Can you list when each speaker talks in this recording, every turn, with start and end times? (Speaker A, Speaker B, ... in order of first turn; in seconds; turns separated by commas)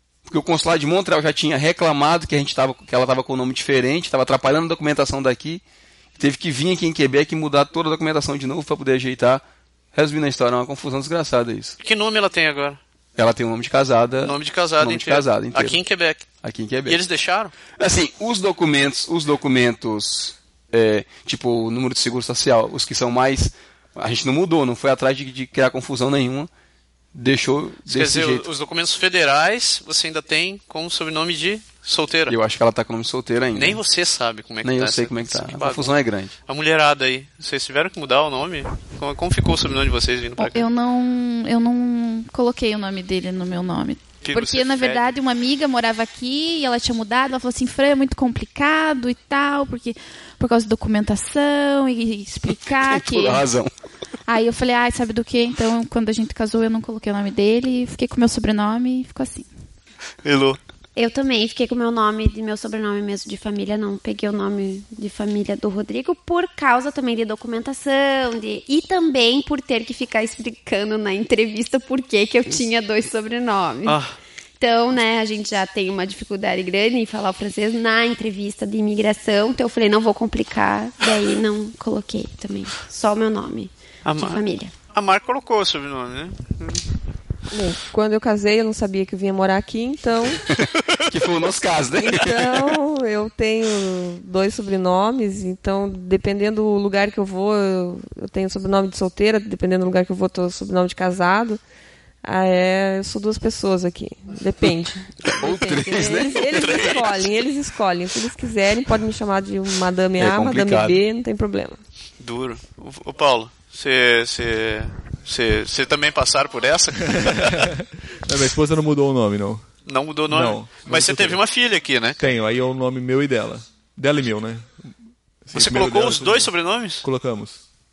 Speaker A: 0.2-5.6, Speaker A: 6.2-9.4, Speaker A: 9.9-11.7, Speaker B: 11.8-12.8, Speaker A: 13.2-15.8, Speaker B: 14.2-16.3, Speaker A: 16.4-17.0, Speaker B: 16.9-17.5, Speaker A: 17.7-26.5, Speaker A: 27.1-28.4, Speaker B: 27.9-32.3, Speaker A: 32.3-33.8, Speaker B: 33.5-35.9, Speaker A: 34.6-36.3, Speaker B: 36.5-40.6, Speaker C: 40.4-53.5, Speaker B: 44.2-45.1, Speaker A: 52.7-53.7, Speaker C: 54.3-59.5, Speaker B: 60.2-60.6, Speaker D: 61.0-74.0, Speaker B: 73.8-74.2, Speaker D: 74.6-84.7, Speaker B: 84.0-86.8, Speaker E: 87.5-90.4, Speaker A: 90.5-92.7, Speaker E: 92.0-101.6, Speaker E: 102.2-111.8, Speaker A: 105.3-106.8, Speaker B: 106.5-107.2, Speaker A: 110.2-111.0, Speaker B: 112.2-117.7, Speaker F: 117.0-119.6, Speaker B: 119.8-122.2, Speaker F: 120.3-121.4, Speaker F: 122.2-124.9, Speaker F: 125.4-127.6, Speaker B: 125.5-127.0